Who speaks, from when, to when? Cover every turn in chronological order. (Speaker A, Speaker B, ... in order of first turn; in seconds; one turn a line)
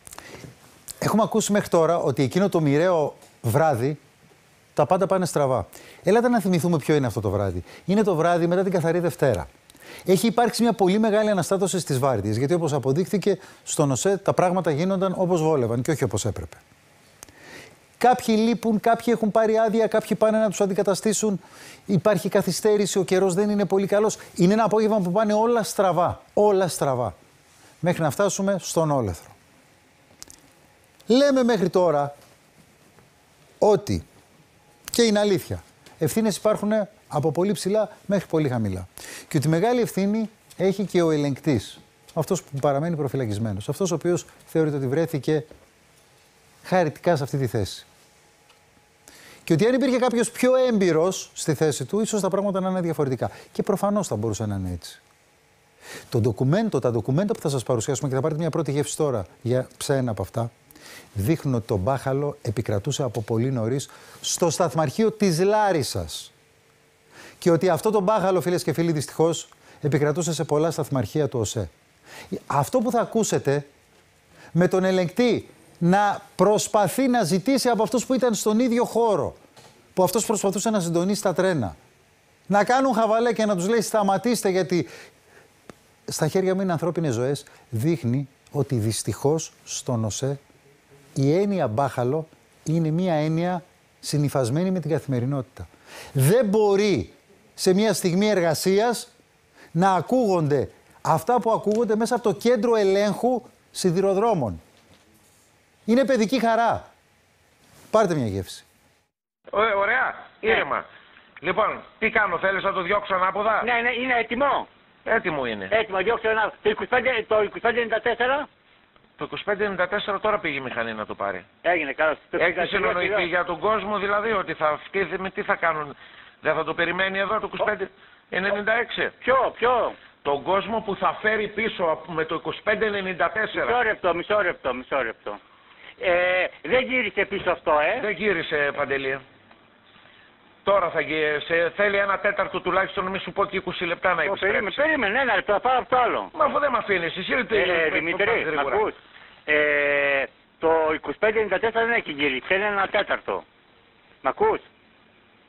Speaker A: 1.0-4.0
Speaker A: 4.8-9.5
Speaker A: 10.1-16.6
Speaker A: 18.0-27.2
Speaker A: 27.8-29.4
Speaker A: 31.1-32.1
Speaker A: 33.6-34.0
Speaker A: 34.9-45.5
Speaker A: 46.6-47.9
Speaker A: 49.5-55.0
Speaker A: 56.1-60.5
Speaker A: 61.1-66.3
Speaker A: 67.4-71.7
Speaker A: 72.3-73.7
Speaker A: 74.5-79.4
Speaker A: 80.0-81.8
Speaker A: 82.5-84.9
Speaker A: 86.1-90.4
Speaker A: 91.2-99.1
Speaker A: 99.8-104.6
Speaker A: 105.9-106.9
Speaker A: 107.9-108.7
Speaker B: 109.5-110.8
Speaker B: 111.4-113.7
Speaker C: 113.6-114.7
Speaker B: 115.1-115.7
Speaker C: 115.7-118.5
Speaker B: 119.2-121.5
Speaker C: 121.6-123.3
Speaker B: 122.4-129.1
Speaker C: 129.2-130.0
Speaker B: 130.2-133.8
Speaker C: 133.5-135.4
Speaker C: 136.0-138.1
Speaker B: 138.0-139.2
Speaker B: 140.7-144.9
Speaker C: 144.2-146.3
Speaker B: 146.3-148.9
Speaker C: 147.5-149.0
Speaker C: 149.5-153.4
Speaker C: 154.2-154.6